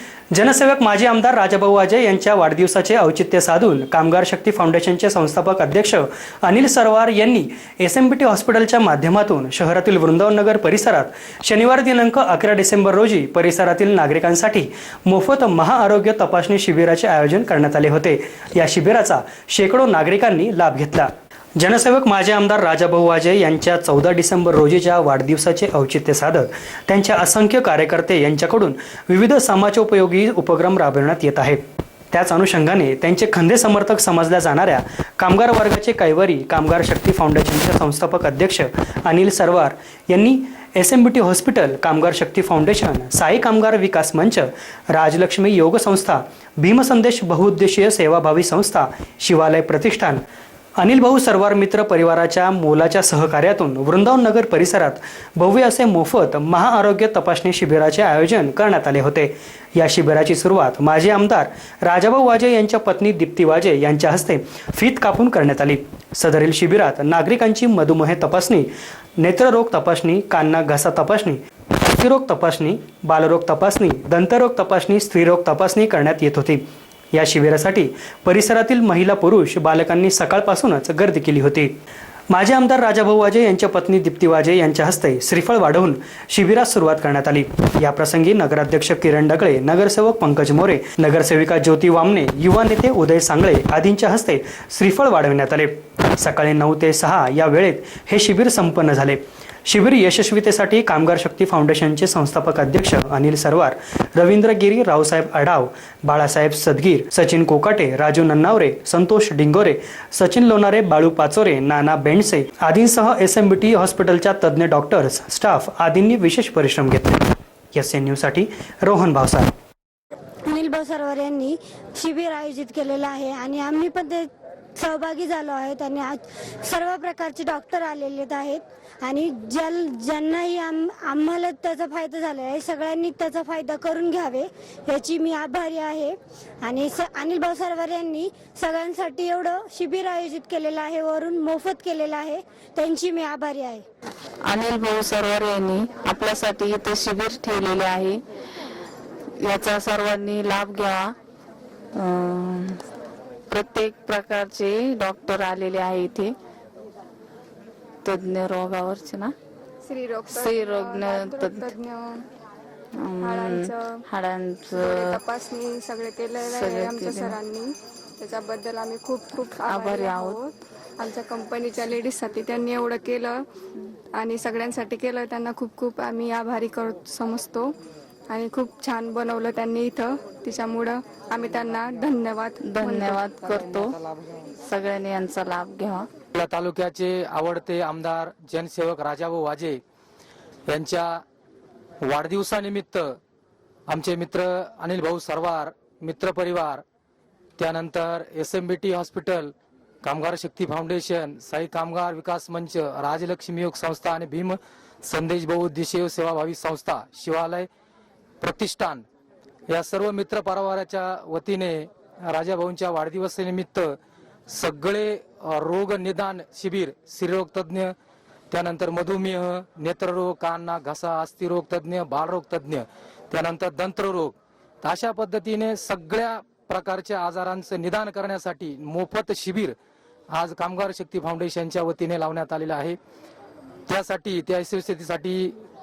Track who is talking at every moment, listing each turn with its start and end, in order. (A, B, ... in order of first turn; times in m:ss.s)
0:00.3-0:50.2 A
0:50.8-1:21.7 A
1:22.3-1:59.5 A
2:00.4-2:23.8 B
2:24.4-2:28.2 C
2:29.4-2:31.1 C
2:31.9-2:32.8 C
2:33.5-2:36.4 C
2:38.0-2:39.4 C
2:39.8-2:42.2 D
2:40.4-2:41.5 C
2:42.9-2:45.2 C
2:43.2-2:44.0 D
2:44.7-2:53.5 D
2:46.7-2:47.3 C
2:49.7-2:50.3 C
2:54.1-2:57.8 D
2:58.3-3:03.8 D
3:02.6-3:04.0 C
3:04.6-3:06.1 C
3:06.3-3:09.8 E
3:10.7-3:11.2 E
3:12.0-3:13.2 E
3:13.9-3:16.8 E
3:17.6-3:27.7 E
3:28.4-3:29.0 E
3:29.7-3:37.9 E
3:38.5-3:49.8 E
3:50.3-3:53.0 E
3:53.9-3:55.6 E